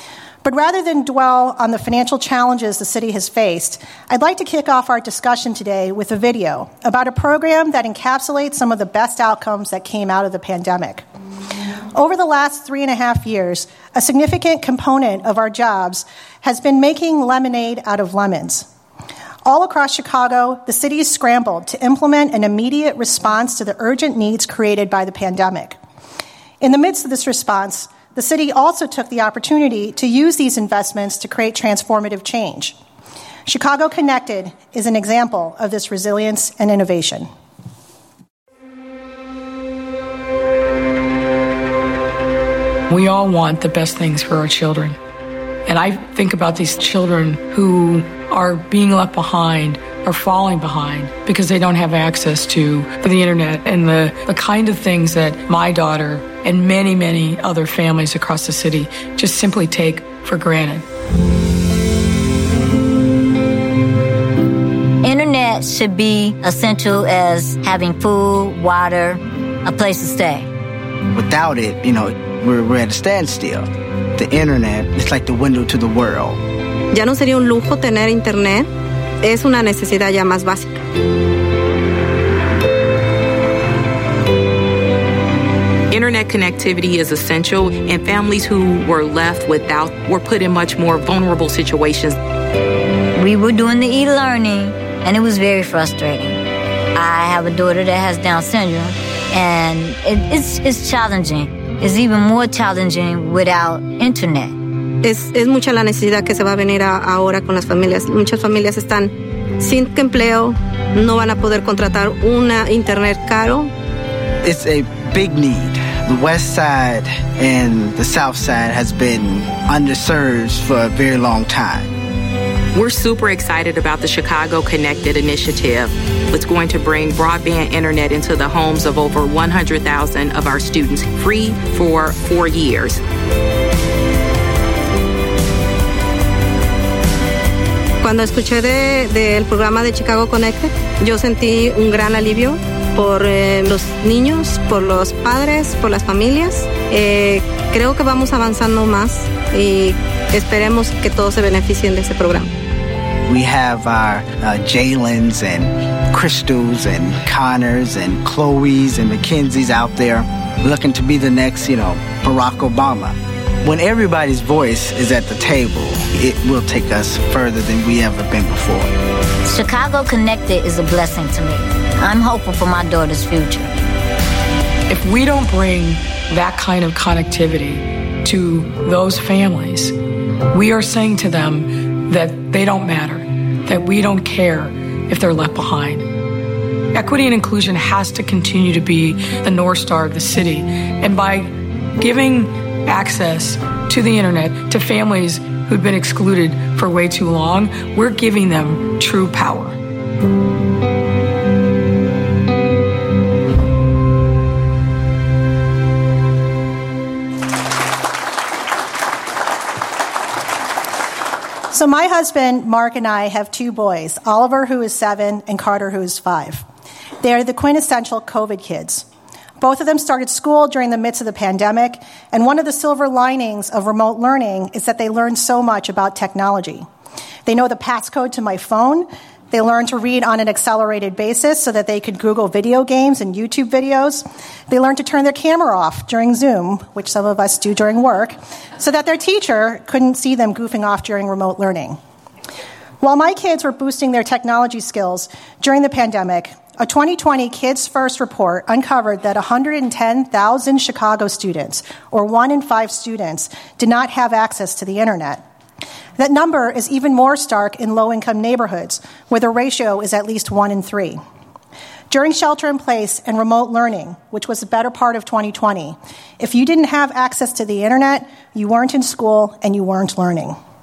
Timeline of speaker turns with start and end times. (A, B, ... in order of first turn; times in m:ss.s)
0:00.4-0:11.0 A
0:11.9-0:18.7 A
0:19.4-0:25.8 A
0:26.6-0:32.8 A
0:33.4-0:37.3 A
0:42.9-0:45.0 B
0:45.6-1:00.8 B
1:05.0-1:10.5 C
1:11.1-1:16.4 D
1:16.9-1:18.7 E
1:19.2-1:20.7 E
1:25.9-1:32.2 F
1:33.1-1:44.6 C
1:45.0-1:53.7 E
1:54.4-2:01.9 D
2:02.7-2:13.0 F
2:18.0-2:32.5 E
2:33.3-2:48.9 D
2:49.4-2:53.7 C
2:54.9-2:59.9 B
3:00.5-3:06.1 B
3:06.9-3:19.8 B
3:31.7-3:36.6 A
3:37.2-3:39.0 A
3:39.6-3:46.9 A
3:47.4-4:02.0 A
4:03.0-4:15.4 A
4:16.2-4:21.2 A
4:22.1-4:30.6 A